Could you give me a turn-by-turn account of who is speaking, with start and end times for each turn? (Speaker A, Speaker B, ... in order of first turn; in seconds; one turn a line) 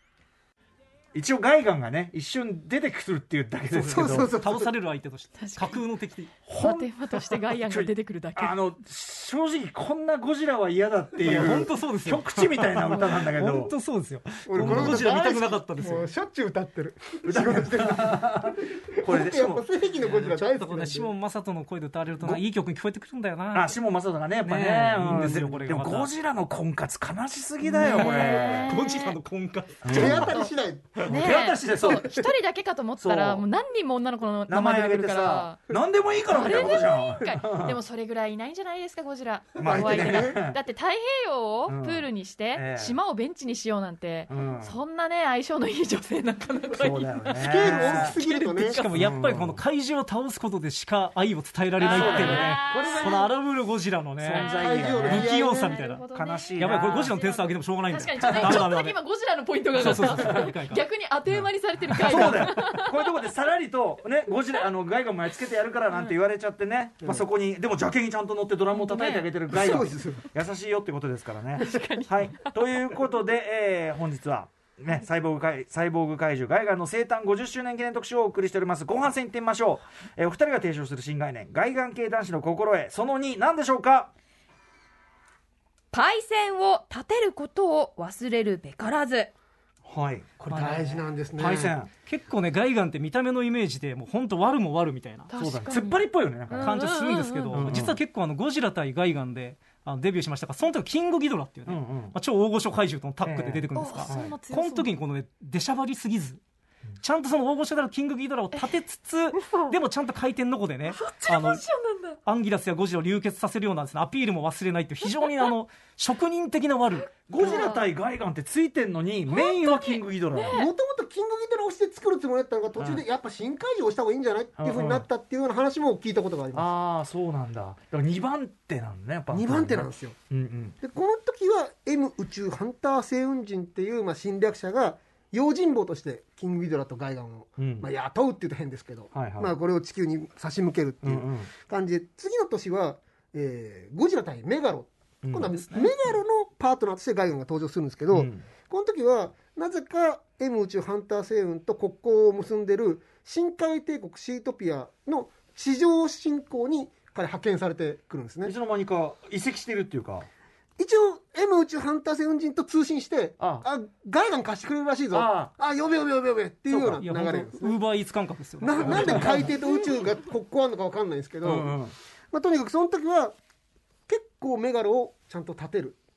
Speaker A: 1.1-4.3
Speaker B: 3.7-4.7
Speaker C: 3.9-6.3
Speaker D: 5.4-5.8
Speaker D: 6.5-8.6
Speaker A: 6.5-6.9
Speaker A: 7.7-13.7
Speaker C: 11.2-16.1
Speaker B: 11.3-11.6
Speaker B: 14.5-21.1
Speaker A: 14.6-15.1
Speaker A: 17.2-19.7
Speaker C: 20.0-23.8
Speaker A: 23.5-28.7
Speaker C: 24.4-26.1
Speaker D: 27.6-29.2
Speaker C: 27.8-30.4
Speaker A: 29.8-30.4
Speaker B: 29.9-31.1
Speaker D: 30.1-30.5
Speaker A: 31.0-32.2
Speaker D: 31.0-35.6
Speaker A: 33.0-33.5
Speaker A: 34.5-37.8
Speaker D: 36.2-47.7
Speaker A: 39.6-40.6
Speaker B: 39.6-40.4
Speaker A: 41.7-43.0
Speaker A: 44.3-44.8
Speaker A: 46.7-48.2
Speaker B: 47.4-48.8
Speaker C: 47.9-56.0
Speaker A: 48.9-49.6
Speaker D: 51.8-53.2
Speaker A: 51.9-52.7
Speaker B: 52.3-53.3
Speaker A: 54.2-55.3
Speaker D: 54.3-63.1
Speaker B: 54.4-55.7
Speaker A: 56.1-57.2
Speaker C: 56.6-59.0
Speaker A: 58.2-58.7
Speaker C: 59.8-60.9
Speaker A: 60.1-60.5
Speaker A: 61.3-84.1
Speaker D: 68.7-69.3
Speaker B: 69.5-70.2
Speaker D: 71.6-72.5
Speaker E: 85.9-89.3
Speaker A: 89.9-91.9
Speaker B: 90.5-91.8
Speaker C: 90.5-91.0
Speaker C: 92.1-95.3
Speaker D: 95.3-97.7
Speaker A: 95.4-96.9
Speaker C: 96.5-106.4
Speaker A: 97.5-98.0
Speaker A: 101.7-102.2
Speaker A: 103.2-104.3
Speaker D: 103.7-104.9
Speaker C: 107.0-111.7
Speaker D: 110.9-112.2
Speaker C: 112.2-117.1
Speaker D: 115.1-115.5
Speaker A: 117.3-120.6
Speaker D: 117.3-117.9
Speaker D: 119.3-120.7
Speaker B: 120.5-126.7
Speaker A: 122.8-123.0
Speaker A: 124.6-125.0
Speaker A: 126.5-130.8
Speaker B: 129.3-130.2
Speaker B: 130.8-158.5
Speaker A: 137.6-137.9
Speaker A: 139.1-139.5
Speaker A: 141.0-141.5
Speaker A: 145.2-145.5
Speaker C: 145.5-146.0
Speaker A: 148.1-148.5
Speaker A: 158.4-160.3
Speaker B: 160.8-167.8
Speaker A: 163.4-163.7
Speaker A: 165.1-165.5
Speaker A: 166.7-167.0
Speaker C: 167.0-169.4
Speaker B: 168.6-171.8
Speaker A: 168.8-169.5
Speaker A: 171.4-171.9
Speaker B: 172.3-173.3
Speaker B: 174.1-176.0